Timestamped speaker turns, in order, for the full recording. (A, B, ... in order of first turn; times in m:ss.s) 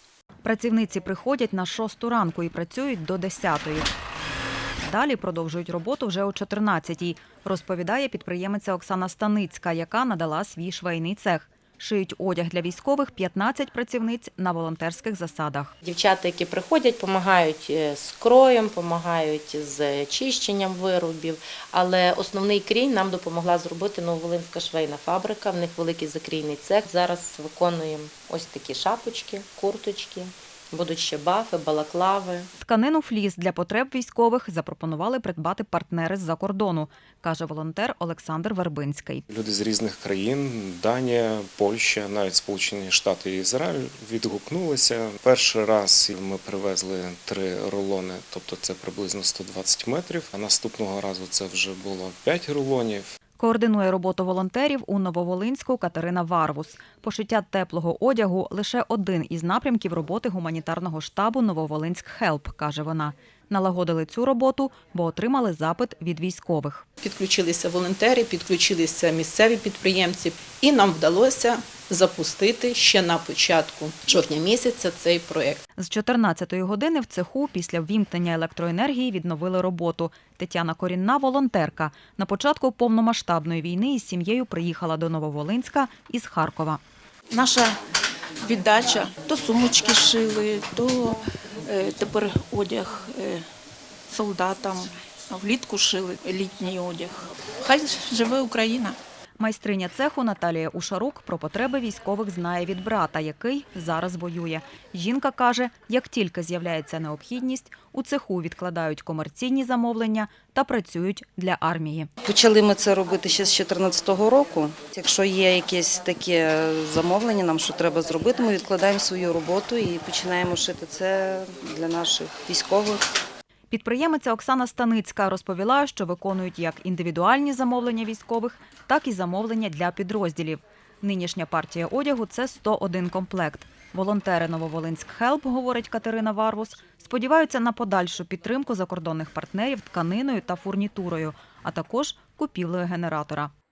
0:00.4-0:03.9 A
0:04.8-0:15.7 A
0:15.8-0:32.5 B
0:32.6-0:39.2 A
0:39.3-0:53.1 C
0:53.4-1:06.8 A
1:07.0-1:15.6 D
1:15.8-1:26.8 A
1:27.3-1:27.8 E
1:28.4-1:33.5 E
1:34.1-1:39.0 E
1:39.4-1:52.1 A
1:52.2-2:03.0 F
2:03.7-2:23.5 A